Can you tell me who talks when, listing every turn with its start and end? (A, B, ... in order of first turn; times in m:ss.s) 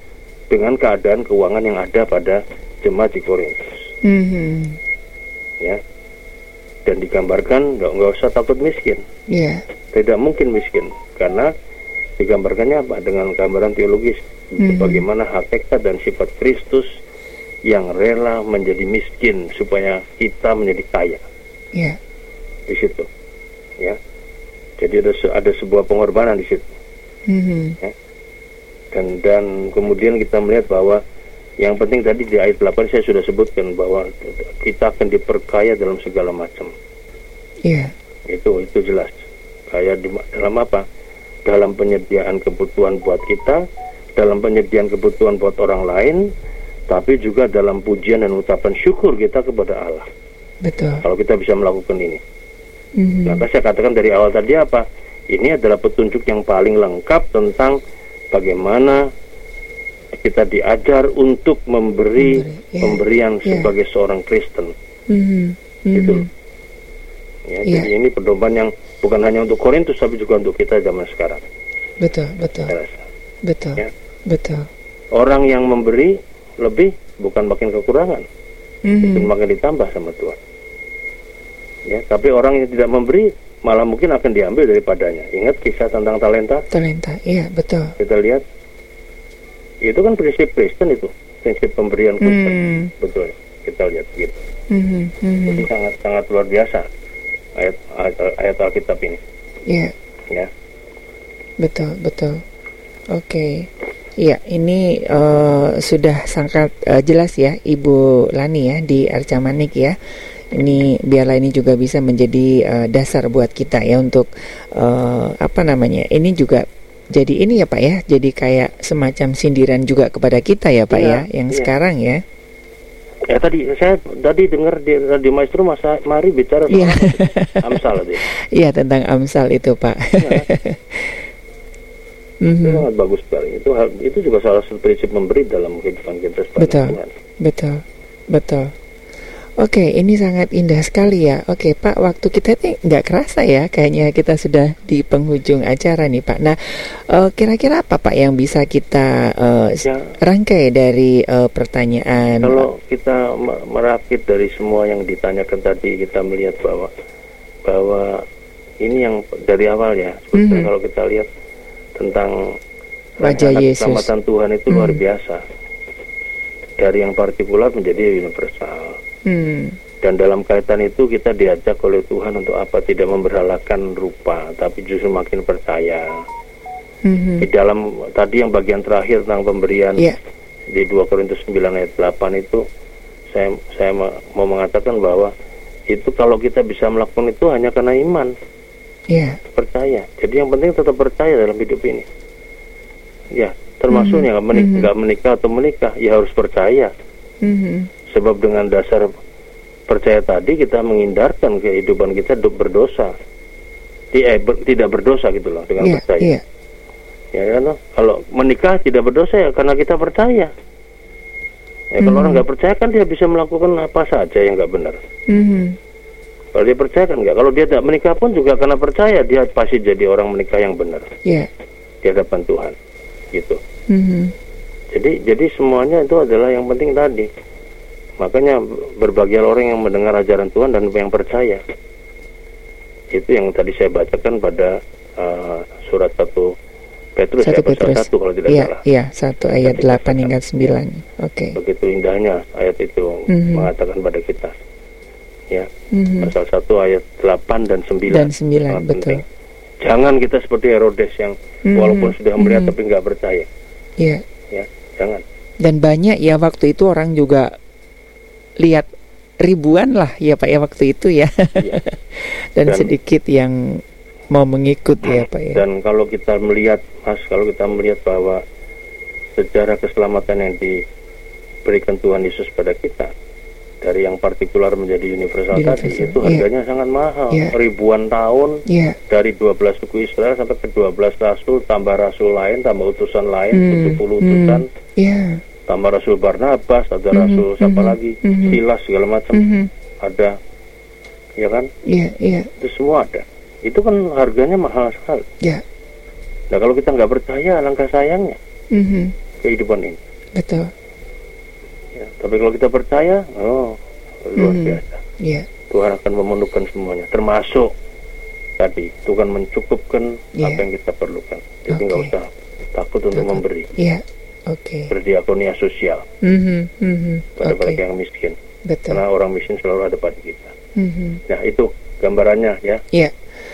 0:00.5-0:03.9 A
0:04.0-0:04.8 B
0:06.8-0:09.0 A
0:09.3-0:09.6 B
0:09.9-0:11.5 A
0:12.2-0:17.0 A
0:14.6-0:15.0 B
0:17.7-0:21.2 A
0:22.7-0:23.1 A
0:24.8-0:26.6 A
0:27.3-0:27.8 B
0:28.9-0:31.0 A
0:31.6-0:36.7 A
0:37.6-0:37.9 B
0:38.3-0:39.2 A
0:39.7-0:40.8 A
0:41.4-0:43.6 A
0:44.2-0:46.3 A
0:46.9-0:50.1 A
0:50.6-0:51.0 B
0:51.0-0:52.2 A
0:53.0-0:53.5 B
0:53.2-0:57.8 A
0:58.3-0:59.1 A
1:00.2-1:04.7 A
1:02.2-1:03.7 B
1:05.1-1:06.3 B
1:05.9-1:06.3 A
1:07.5-1:11.4 A
1:12.0-1:12.7 B
1:12.7-1:13.0 A
1:13.4-1:14.7 B
1:15.1-1:18.2 A
1:18.8-1:19.3 B
1:19.0-1:20.4 A
1:21.9-1:26.7 A
1:26.7-1:27.9 B
1:28.0-1:28.4 A
1:29.8-1:34.4 A
1:32.2-1:32.9 B
1:34.7-1:35.7 B
1:35.5-1:36.9 A
1:37.6-1:39.2 A
1:39.7-1:39.9 B
1:41.6-1:42.4 B
1:43.1-1:50.0 B
1:50.5-2:02.2 B
2:00.9-2:01.7 A
2:03.3-2:08.3 A
2:06.7-2:07.8 B
2:08.3-2:11.2 B
2:10.2-2:10.4 A
2:12.4-2:12.8 B
2:12.6-2:17.1 A
2:16.6-2:18.7 B
2:19.6-2:32.7 B
2:29.8-2:30.1 A
2:32.4-2:36.9 A
2:37.6-2:38.2 A
2:38.8-2:41.3 A
2:40.3-2:40.7 B
2:42.0-2:42.6 A
2:43.2-2:45.4 A
2:43.2-2:44.1 B
2:44.7-2:45.0 B
2:46.8-2:49.0 A
2:49.3-2:49.8 B
2:50.0-2:56.2 A
2:57.0-2:57.5 B
2:57.4-3:00.1 A
3:00.7-3:02.6 A
3:03.3-3:05.3 A
3:05.9-3:08.3 A
3:09.1-3:09.4 B
3:09.5-3:12.1 A
3:13.3-3:16.9 A
3:13.9-3:14.9 B
3:17.4-3:17.9 B
3:18.1-3:19.1 A
3:19.9-3:23.1 A
3:24.1-3:26.3 A
3:25.8-3:26.4 B
3:27.3-3:30.5 A
3:31.9-3:35.0 A
3:32.0-3:32.4 B
3:35.3-3:35.8 B
3:36.5-3:41.1 A
3:42.0-3:42.8 A
3:43.3-3:43.6 A
3:43.9-3:44.3 B
3:44.9-3:47.3 A
3:48.2-3:51.6 A
3:53.1-3:56.5 A
3:57.2-3:58.8 A
3:57.4-4:01.6 B
3:59.6-4:00.3 A
4:01.6-4:04.6 A
4:03.3-4:03.7 B
4:05.9-4:06.3 B
4:06.2-4:09.2 A
4:08.1-4:09.2 B
4:09.8-4:13.5 A
4:11.7-4:12.7 B
4:14.5-4:15.2 A
4:15.6-4:17.5 B
4:18.6-4:18.9 B
4:19.4-4:25.6 B
4:22.7-4:22.9 A
4:25.5-4:28.4 A
4:29.4-4:30.8 A
4:31.6-4:33.1 A
4:33.8-4:44.7 A
4:35.5-4:36.4 B
4:38.7-4:39.0 B
4:43.5-4:45.4 B
4:45.7-4:49.5 A
4:47.1-4:48.6 B
4:49.3-4:49.7 B
4:50.0-4:50.4 A
4:51.4-4:51.7 A
4:51.9-4:52.5 B
4:52.6-4:55.3 A
4:56.5-4:58.4 A
4:58.7-4:59.2 B
4:59.4-5:00.0 A
5:00.4-5:00.7 B
5:02.0-5:05.0 A
5:04.4-5:05.5 B
5:05.7-5:07.7 A
5:08.6-5:13.7 A
5:10.4-5:10.7 B
5:11.7-5:12.1 B
5:13.1-5:14.9 B
5:14.9-5:16.0 A
5:16.2-5:17.8 B
5:17.4-5:18.4 A
5:18.6-5:19.0 B
5:18.9-5:20.5 A
5:20.8-5:21.2 B
5:21.3-5:22.8 A